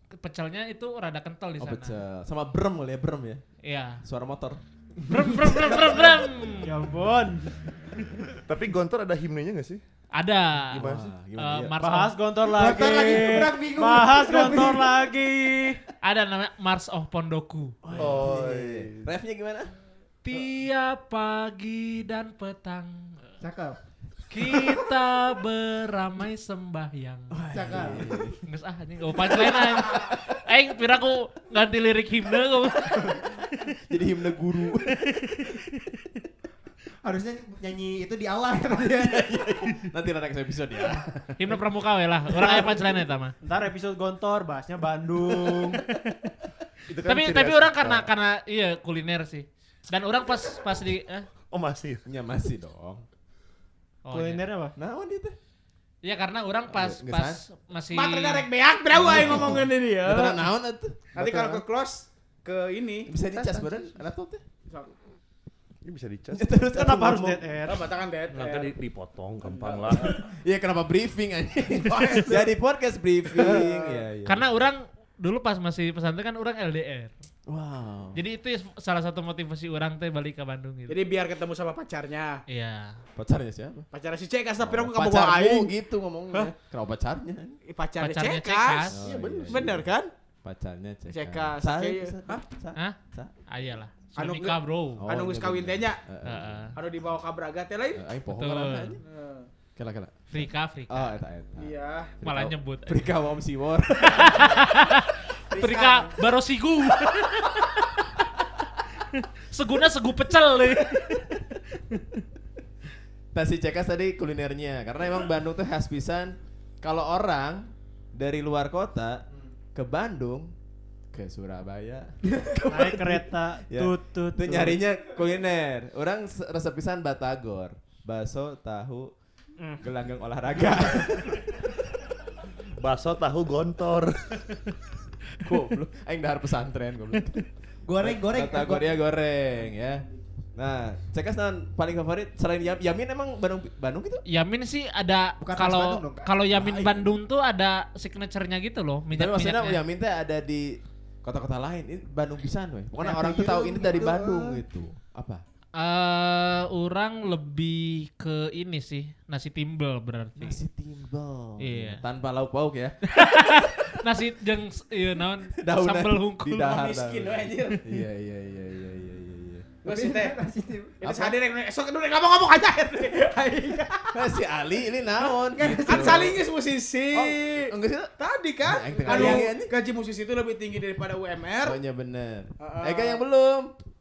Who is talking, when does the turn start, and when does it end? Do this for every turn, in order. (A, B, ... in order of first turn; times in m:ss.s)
0:00.2-0:02.0 A
0:01.6-0:03.4 B
0:03.6-0:04.0 A
0:04.0-0:04.6 B
0:05.0-0:06.7 A
0:05.5-0:06.2 C
0:06.6-0:07.6 D
0:08.3-0:09.8 E
0:10.1-0:10.8 A
0:10.7-0:11.8 B
0:10.7-0:11.1 E
0:11.4-0:12.2 A
0:11.8-0:15.8 D
0:12.4-0:14.9 C
0:16.0-0:17.8 A
0:17.8-0:19.7 B
0:17.9-0:19.1 E
0:20.2-0:23.2 A
0:23.4-0:23.8 C
0:24.3-0:27.4 A
0:27.3-0:28.4 B
0:27.5-0:28.1 C
0:28.4-0:33.4 A
0:29.3-0:30.2 B
0:33.9-0:35.1 B
0:37.0-0:39.4 C
0:38.9-0:41.4 B
0:41.4-0:43.3 A
0:43.4-0:45.8 D
0:45.9-0:46.2 A
0:46.9-0:48.0 E
0:47.0-0:51.3 A
0:51.5-0:52.0 E
0:52.0-0:53.0 B
0:54.0-0:54.4 A
0:54.1-0:54.7 D
0:54.8-0:55.4 B
0:56.0-0:58.5 A
0:56.7-0:57.4 B
0:57.9-1:00.4 F
0:58.9-1:01.1 B
1:01.1-1:03.1 F
1:01.2-1:01.6 E
1:03.1-1:04.4 B
1:03.2-1:03.9 E
1:05.8-1:06.6 E
1:06.3-1:07.5 B
1:06.7-1:07.8 D
1:07.6-1:08.8 F
1:08.3-1:10.3 E
1:09.4-1:10.1 F
1:10.1-1:14.4 B
1:11.9-1:12.4 F
1:13.3-1:14.0 F
1:13.4-1:13.7 E
1:14.2-1:17.1 A
1:17.5-1:18.2 B
1:18.1-1:21.0 A
1:20.9-1:22.4 F
1:22.5-1:23.0 A
1:23.2-1:23.9 B
1:23.9-1:25.7 F
1:24.6-1:27.6 B
1:27.7-1:30.1 F
1:28.0-1:29.0 A
1:28.9-1:29.9 B
1:29.0-1:29.8 E
1:30.4-1:33.3 B
1:31.1-1:32.4 F
1:32.7-1:35.0 A
1:34.2-1:36.0 F
1:35.0-1:36.7 B
1:36.2-1:36.7 A
1:36.7-1:38.0 F
1:38.0-1:39.0 B
1:38.3-1:39.0 A
1:39.0-1:39.5 F
1:39.8-1:44.6 B
1:40.3-1:41.1 A
1:41.6-1:42.2 F
1:42.2-1:43.1 A
1:44.0-1:48.2 A
1:45.8-1:46.0 F
1:49.0-1:52.1 A
1:53.3-2:00.5 B
2:01.1-2:09.1 B
2:02.7-2:04.8 D
2:09.8-2:11.7 B
2:12.8-2:14.6 E
2:15.4-2:17.5 B
2:17.8-2:19.0 C
2:18.0-2:24.2 B
2:24.2-2:29.8 A
2:25.4-2:26.3 C
2:26.5-2:27.1 B
2:29.1-2:35.4 B
2:33.0-2:34.6 C
2:35.8-2:40.6 A
2:40.4-2:43.7 B
2:41.6-2:42.0 A
2:43.1-2:46.7 A
2:45.6-2:49.8 B
2:46.6-2:47.9 F
2:49.8-2:50.4 F
2:49.8-2:51.1 C
2:51.0-2:54.2 F
2:54.1-2:56.4 B
2:55.4-2:56.4 C
2:55.8-3:01.8 F
2:57.1-2:58.1 B
2:58.6-2:59.7 B
3:01.6-3:03.7 B
3:02.6-3:03.2 F